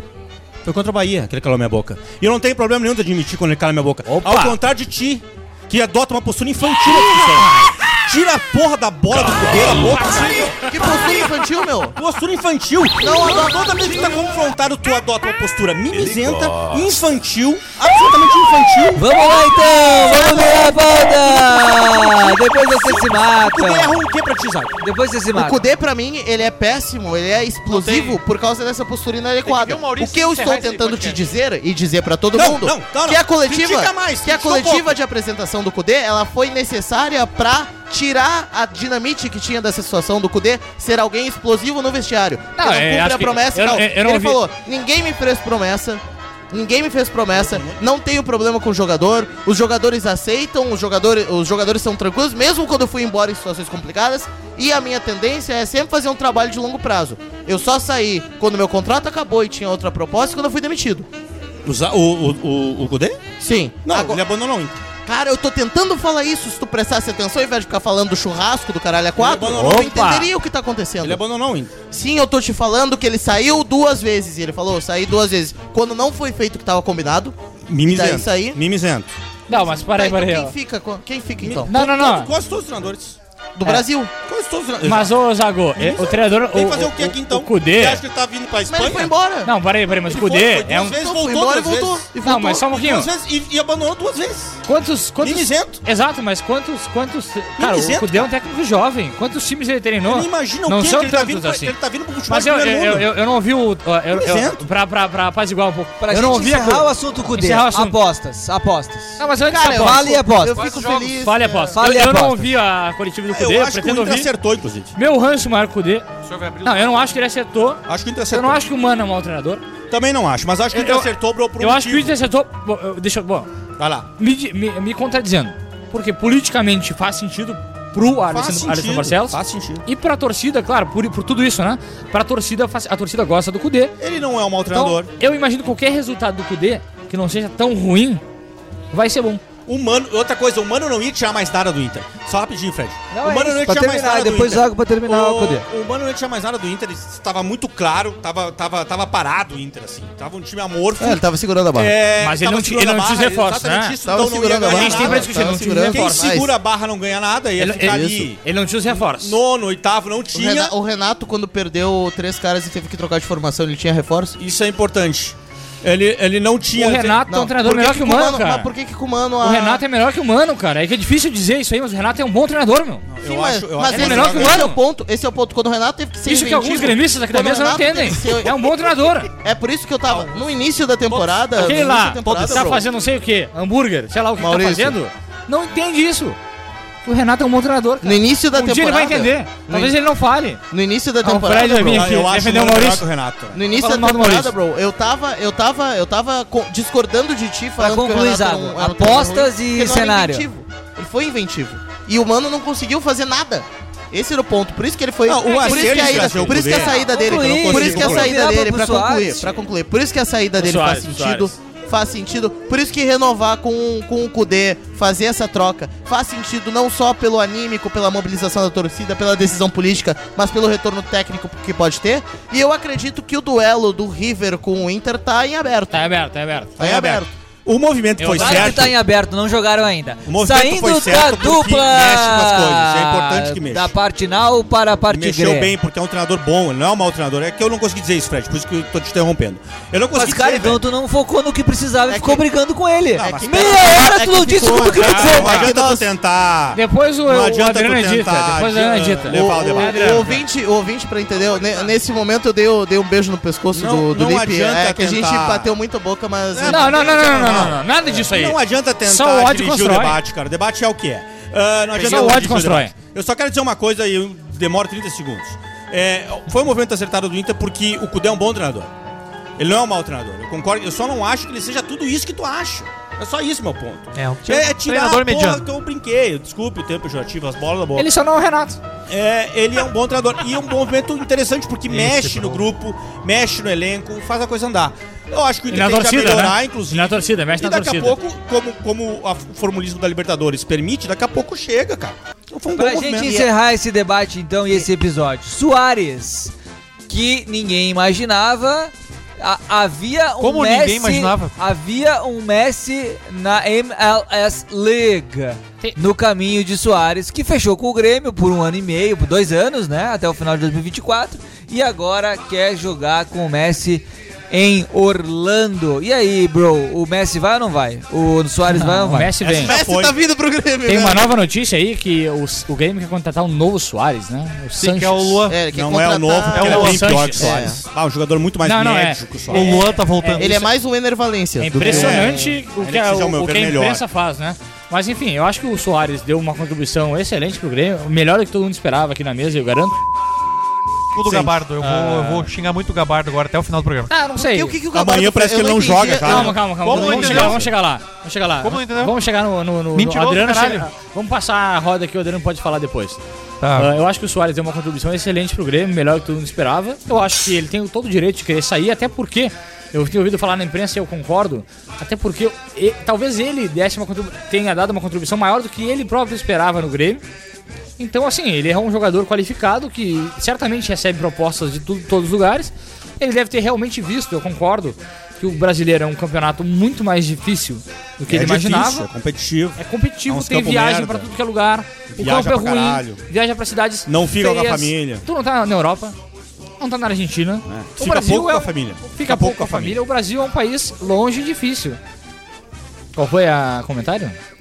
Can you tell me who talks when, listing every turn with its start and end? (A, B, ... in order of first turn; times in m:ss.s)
0:00.6-0:10.7 A
0:04.1-0:04.6 B
0:06.9-0:07.4 B
0:09.8-0:10.8 B
0:10.5-0:11.9 C
0:12.0-0:19.0 A
0:13.0-0:14.2 C
0:18.9-0:24.0 D
0:19.8-0:22.2 C
0:22.6-0:24.8 A
0:24.8-0:25.6 D
0:25.3-1:01.1 C
0:27.7-0:28.2 E
0:29.4-0:31.3 E
0:32.4-0:34.9 A
0:42.6-0:44.4 B
0:47.4-0:47.8 A
1:01.6-1:03.2 A
1:03.4-1:04.2 C
1:03.8-1:04.8 A
1:05.1-1:11.2 C
1:09.2-1:09.9 A
1:09.6-1:10.3 B
1:11.0-1:11.7 A
1:11.9-1:18.6 C
1:17.7-1:19.1 A
1:19.5-1:20.5 B
1:19.5-1:21.7 C
1:21.4-1:23.2 A
1:21.7-1:22.3 B
1:23.6-1:24.1 C
1:24.2-1:25.1 A
1:24.8-1:28.0 B
1:25.7-1:29.1 A
1:28.7-1:29.5 C
1:29.4-1:31.0 B
1:30.1-1:34.6 A
1:30.9-1:32.7 C
1:32.2-1:33.1 B
1:34.7-1:41.8 B
1:35.2-1:35.8 A
1:37.6-1:38.3 A
1:40.0-1:43.1 A
1:42.3-1:48.0 B
1:44.1-1:44.6 A
1:46.0-1:50.6 D
1:49.2-1:54.3 B
1:49.5-1:51.8 C
1:50.6-1:51.0 E
1:51.8-1:52.5 D
1:53.3-1:54.9 A
1:54.9-1:56.1 B
1:56.2-1:56.9 E
1:56.6-1:59.6 B
1:57.9-1:58.6 A
1:59.9-2:02.1 A
2:00.7-2:03.5 B
2:03.8-2:04.1 A
2:04.2-2:13.9 B
2:08.3-2:09.8 A
2:14.0-2:15.1 A
2:14.7-2:18.2 B
2:18.9-2:19.4 B
2:19.6-2:40.7 A
2:23.1-2:25.7 D
2:31.0-2:31.9 C
2:32.2-2:34.0 B
2:34.0-2:36.5 C
2:34.6-2:36.4 B
2:37.6-2:39.4 B
2:37.8-2:38.3 C
2:40.3-2:44.4 C
2:44.4-2:47.2 A
2:46.7-2:48.7 B
2:47.3-2:49.8 C
2:49.4-2:53.1 B
2:53.1-2:54.7 A
2:53.2-2:58.7 C
2:53.8-2:54.8 B
2:56.3-2:59.3 B
2:59.3-3:02.8 C
3:01.5-3:06.4 B
3:02.3-3:02.7 A
3:04.4-3:05.0 C
3:07.0-3:10.6 B
3:08.0-3:10.0 C
3:10.7-3:12.1 C
3:11.2-3:13.1 B
3:11.8-3:13.6 A
3:13.5-3:46.0 C
3:13.7-3:14.5 B
3:17.8-3:20.5 D
3:25.3-3:28.3 A
3:26.7-3:29.6 D
3:30.6-3:31.5 B
3:45.9-3:46.9 B
3:46.8-3:47.3 C
3:46.8-3:49.0 A
3:48.2-3:48.9 B
3:48.3-3:55.7 D
3:50.3-3:53.9 A
3:55.1-4:00.8 A
4:00.1-4:05.7 D
4:02.1-4:02.4 C
4:03.2-4:04.1 A
4:03.2-4:06.1 C
4:04.6-4:10.4 A
4:06.7-4:10.4 B
4:09.3-4:17.7 C
4:13.7-4:15.7 A
4:16.5-4:28.9 A
4:16.7-4:20.2 B
4:21.9-4:22.9 B
4:29.6-4:38.1 A
4:34.1-4:35.6 E
4:38.0-4:38.8 B
4:39.1-4:53.5 A
4:41.9-4:42.7 E
4:45.7-4:48.2 B
4:52.7-4:56.5 D
4:57.1-5:19.4 D
5:00.4-5:01.6 E
5:18.7-5:19.8 B
5:19.4-5:20.2 A
5:19.6-5:21.3 C
5:20.9-5:25.4 B
5:24.8-5:25.6 E
5:25.5-5:27.8 C
5:25.7-5:29.8 A
5:26.5-5:27.4 E
5:26.6-5:27.7 B
5:28.6-5:30.6 B
5:29.5-5:30.7 E
5:30.4-5:32.4 C
5:31.6-5:40.0 B
5:31.8-5:34.0 A
5:41.1-5:44.1 E
5:41.2-5:42.1 A
5:41.8-5:42.4 B
5:44.1-5:44.8 B
5:44.4-5:47.6 C
5:44.9-5:47.7 A
5:46.2-5:53.2 B
5:46.8-5:47.6 E
5:48.6-5:49.2 E
5:49.9-5:50.9 E
5:53.6-5:53.9 E
5:53.7-6:07.2 B
6:08.0-6:19.1 B
6:18.3-6:21.3 A
6:19.8-6:26.2 B
6:22.1-6:23.2 A
6:24.1-6:25.2 A
6:26.8-6:32.0 B
6:27.7-6:30.0 A
6:33.2-6:34.4 B